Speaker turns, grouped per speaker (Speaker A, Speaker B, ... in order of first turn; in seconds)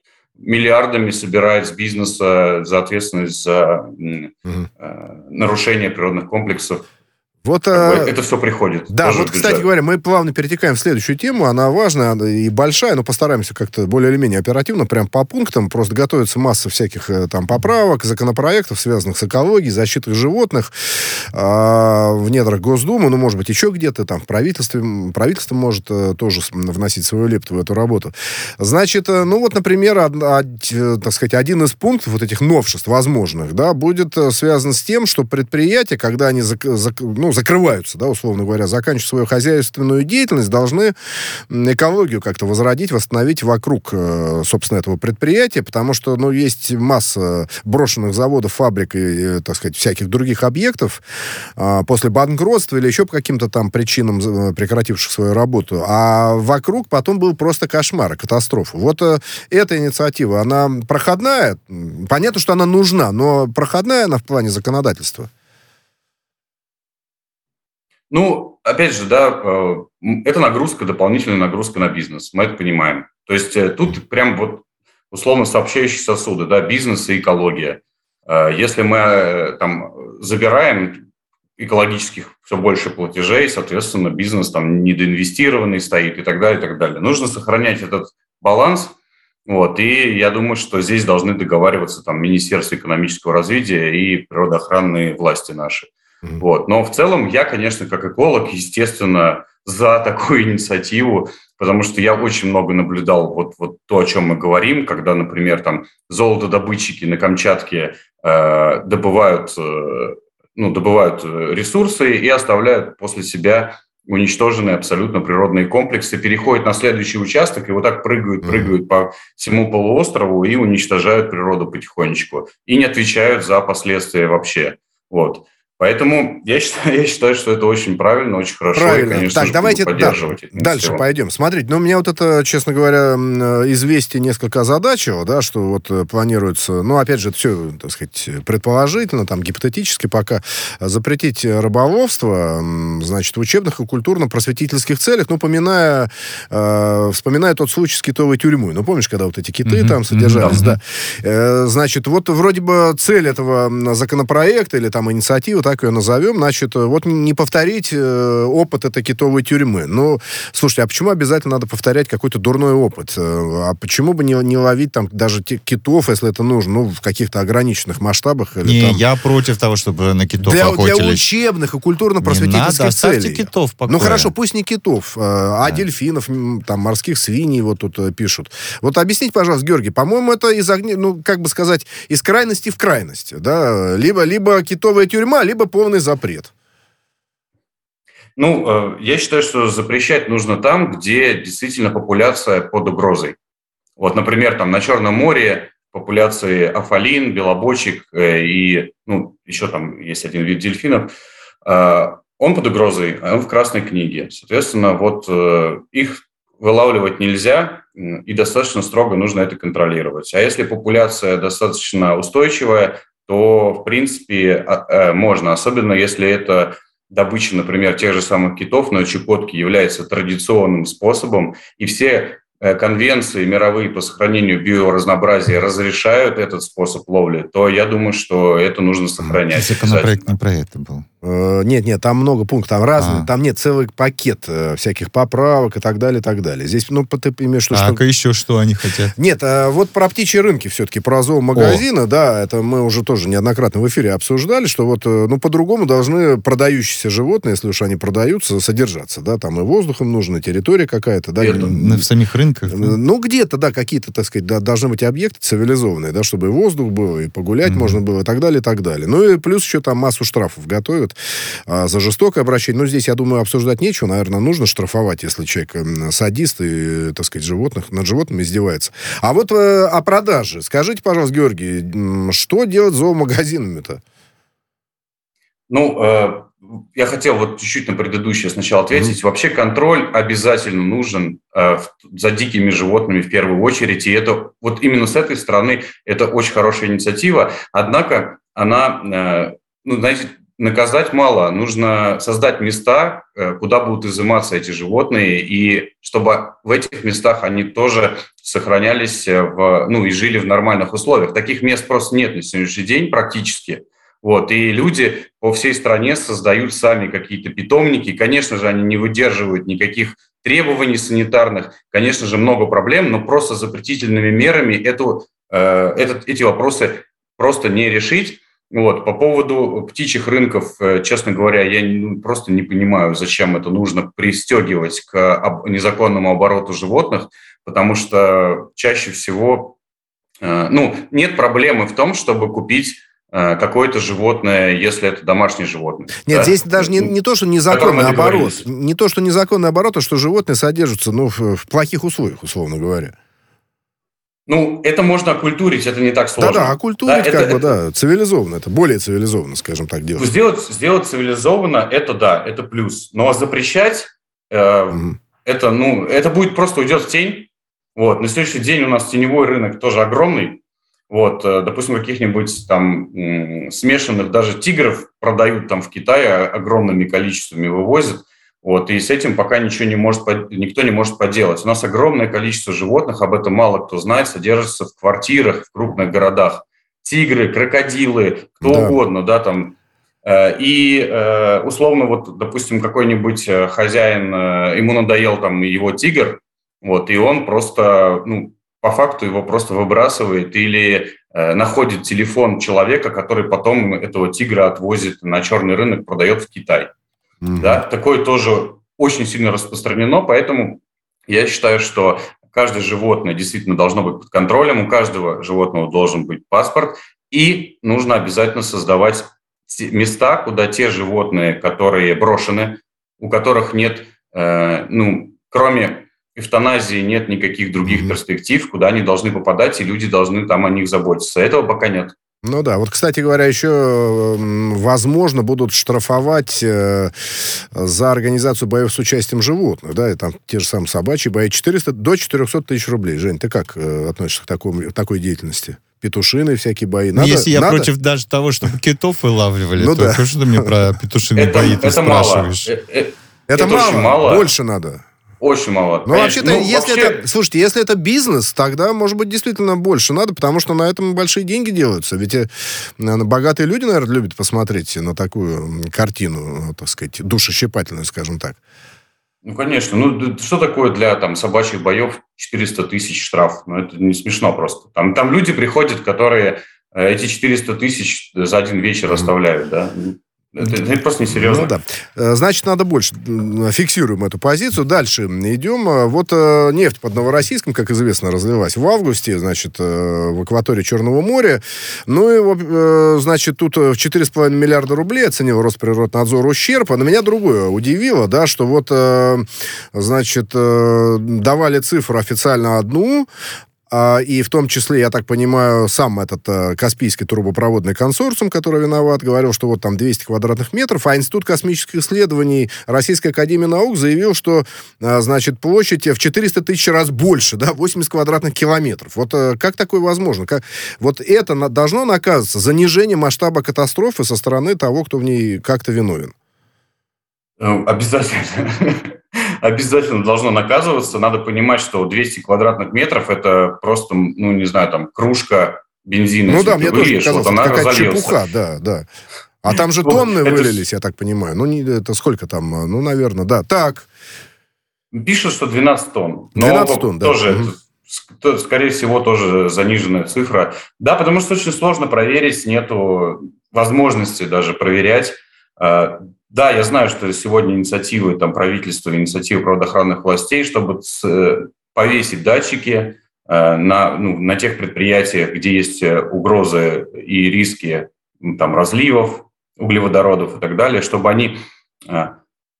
Speaker A: 0.4-6.9, 7.7-9.7, 68.1-81.0, 81.6-88.9, 89.5-95.9, 96.4-131.0, 188.4-193.3, 194.0-201.1, 201.6-230.3, 251.4-251.7, 275.7-329.7, 330.4-337.1, 337.7-338.6, 344.5-347.8, 350.2-396.9, 397.6-422.1, 441.4-444.5, 445.4-447.2, 459.4-471.7, 517.6-528.4, 530.0-530.8, 535.1-562.4
Speaker B: 7.4-8.1, 8.9-20.7, 21.3-40.9, 41.5-51.0, 51.6-65.3, 118.4-118.7, 128.7-169.0, 170.4-186.5, 231.2-238.0, 239.2-252.1, 252.7-261.1, 261.7-274.0, 336.3-343.1, 346.4-350.2, 378.6-379.0, 397.4-397.8, 417.9-418.1, 422.4-427.1, 427.7-437.9, 439.8-440.7, 443.5-445.0, 446.1-452.5, 453.0-458.6, 471.3-493.3, 493.9-516.3, 526.5-529.1, 529.6-534.1, 536.5-537.7
Speaker C: 149.6-150.8, 168.6-171.2, 172.2-174.3, 229.5-231.1, 233.0-233.3, 237.7-239.1, 241.5-241.8, 251.7-252.9, 257.7-258.0, 437.1-442.7